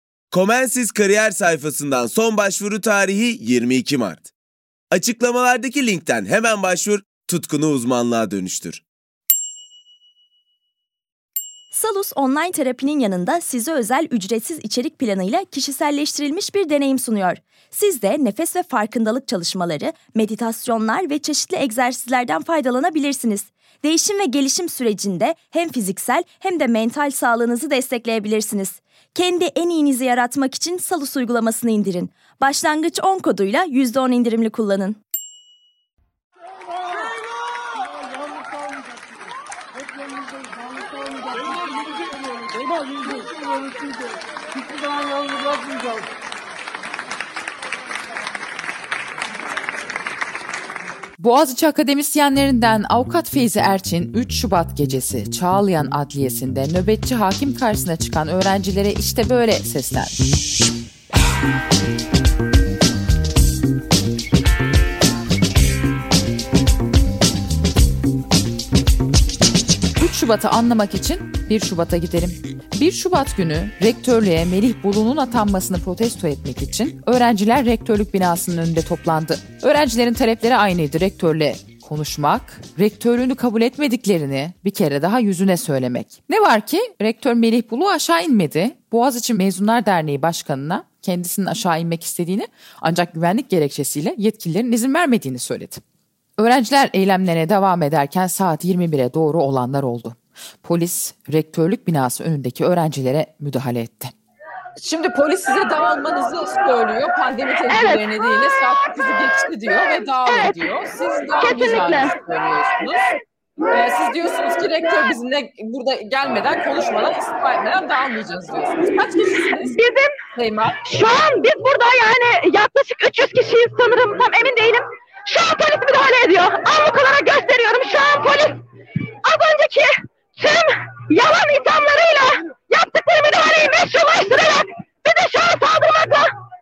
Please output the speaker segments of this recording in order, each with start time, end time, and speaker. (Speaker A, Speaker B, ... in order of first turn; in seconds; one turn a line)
Speaker A: 0.3-4.3
Speaker A: 4.9-8.8
Speaker B: 11.7-35.0
Speaker C: 51.2-60.2
Speaker C: 70.0-95.8
Speaker C: 96.4-104.1
Speaker D: 104.8-113.0
Speaker E: 107.7-108.0
Speaker E: 110.3-110.6
Speaker E: 111.4-112.1
Speaker D: 113.7-119.7
Speaker E: 119.6-120.2
Speaker D: 120.3-120.8
Speaker E: 120.8-128.6
Speaker E: 129.2-136.3